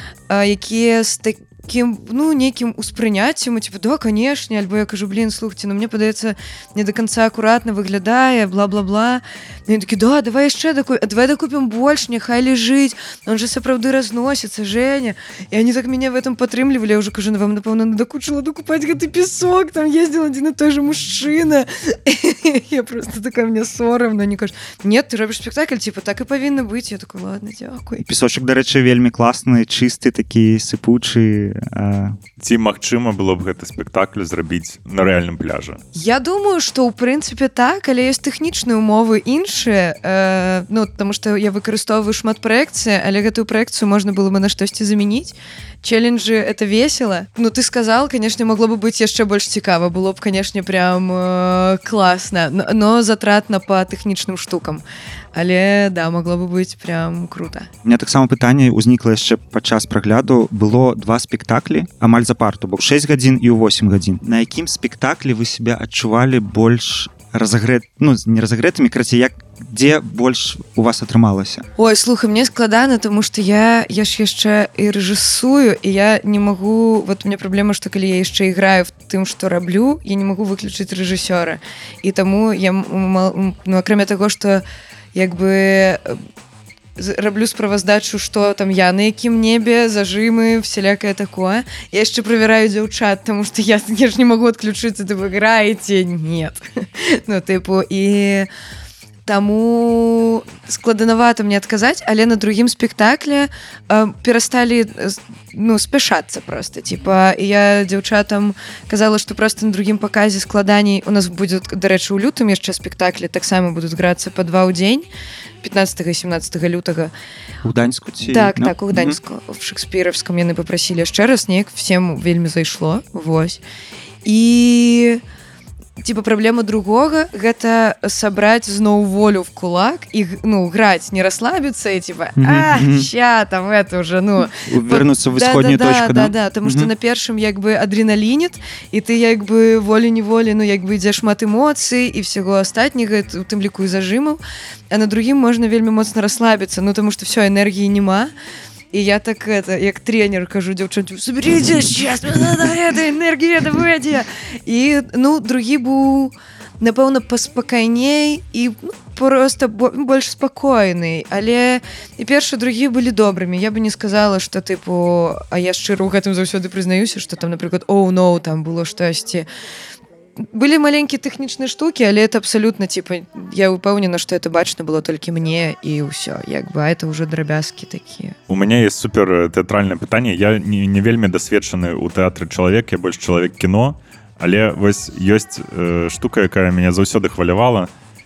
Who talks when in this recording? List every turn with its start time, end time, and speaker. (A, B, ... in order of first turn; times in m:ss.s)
0:00.3-0:28.0 A
0:28.0-0:32.2 B
0:32.4-0:35.8 C
0:35.9-0:54.8 A
0:55.3-0:57.7 A
0:57.8-1:11.7 B
1:11.8-1:26.2 A
1:27.0-1:38.5 A
1:39.3-1:55.1 A
1:55.6-1:57.1 A
1:57.6-1:59.2 B
1:58.2-2:03.6 A
2:04.2-2:05.2 A
2:06.0-2:24.4 A
2:12.4-2:13.1 B
2:14.5-2:16.9 B
2:24.9-2:28.3 A
2:28.9-2:49.5 A
2:50.4-2:58.4 A
2:58.5-3:07.9 C